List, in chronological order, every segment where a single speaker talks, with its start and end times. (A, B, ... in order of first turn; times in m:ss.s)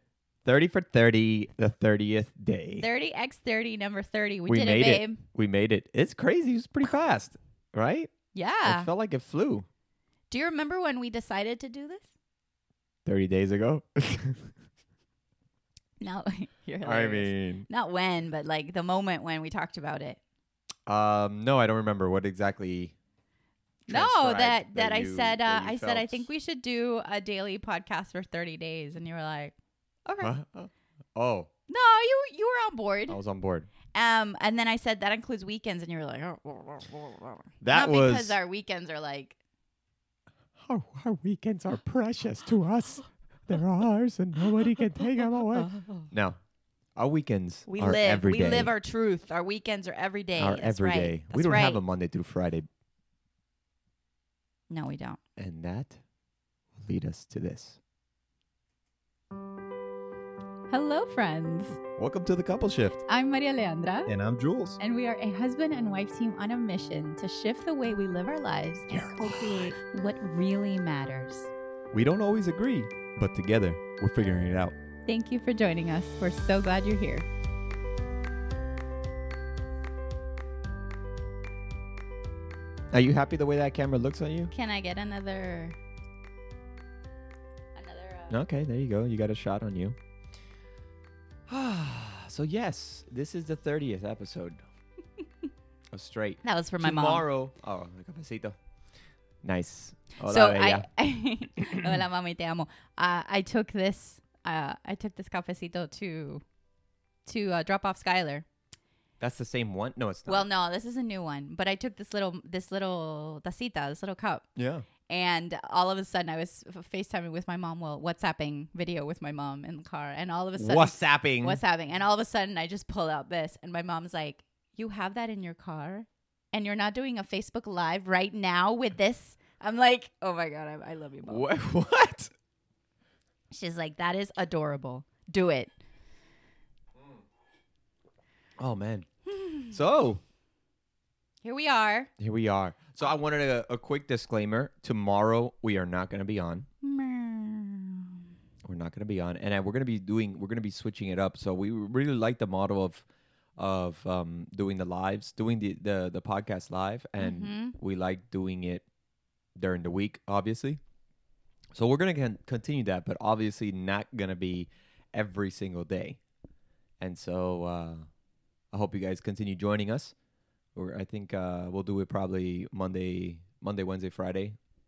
0:00.4-0:02.9 A
0:02.8-0:05.2 B
0:04.5-0:08.1 A
0:08.3-0:08.9 B
0:08.6-0:09.7 A
0:10.3-0:12.1 B
0:13.1-0:14.5 A
0:16.0-0:20.2 B
0:16.8-0:17.7 A
0:20.9-0:23.0 A
0:23.9-0:26.3 A
0:23.9-0:29.5 B
0:30.1-0:30.3 B
0:30.2-0:31.5 A
0:31.7-0:33.2 B
0:33.1-0:33.7 A
0:33.9-0:39.4 B
0:37.6-0:38.4 A
0:40.6-0:46.4 A
0:45.6-0:46.1 B
0:47.0-0:48.7 A
0:47.7-0:51.8 B
0:50.4-0:52.7 A
0:54.7-0:55.2 B
0:55.4-0:56.0 A
0:56.8-0:57.8 A
1:00.7-1:01.8 B
1:02.0-1:03.0 A
1:03.1-1:04.1 B
1:04.1-1:04.8 A
1:04.8-1:11.5 B
1:08.9-1:09.8 A
1:11.9-1:14.8 A
1:15.1-1:17.3 B
1:22.9-1:24.5 A
1:24.5-1:25.8 B
1:27.8-1:28.4 B
1:28.3-1:30.0 A
1:31.5-1:34.6 A
1:35.9-1:38.6 A
1:36.4-1:37.2 B
1:39.4-1:40.9 A
1:40.2-1:46.4 B
1:41.6-1:42.0 A
1:47.3-1:48.5 B
1:49.2-1:50.5 A
1:50.3-1:54.5 B
1:54.6-1:54.9 A
1:55.1-2:11.5 B
2:00.6-2:01.6 A
2:11.2-2:12.3 A
2:13.5-2:15.7 B
2:18.6-2:19.1 A
2:19.3-2:19.8 B
2:19.7-2:20.2 A
2:21.4-2:22.1 B
2:22.2-2:26.7 A
2:26.8-2:28.2 B
2:28.6-2:33.0 A
2:33.6-2:38.8 A
2:37.2-2:37.8 B
2:39.6-2:40.8 A
2:41.7-2:46.2 A
2:47.0-2:48.1 A
2:48.7-2:50.1 A
2:50.8-2:54.6 A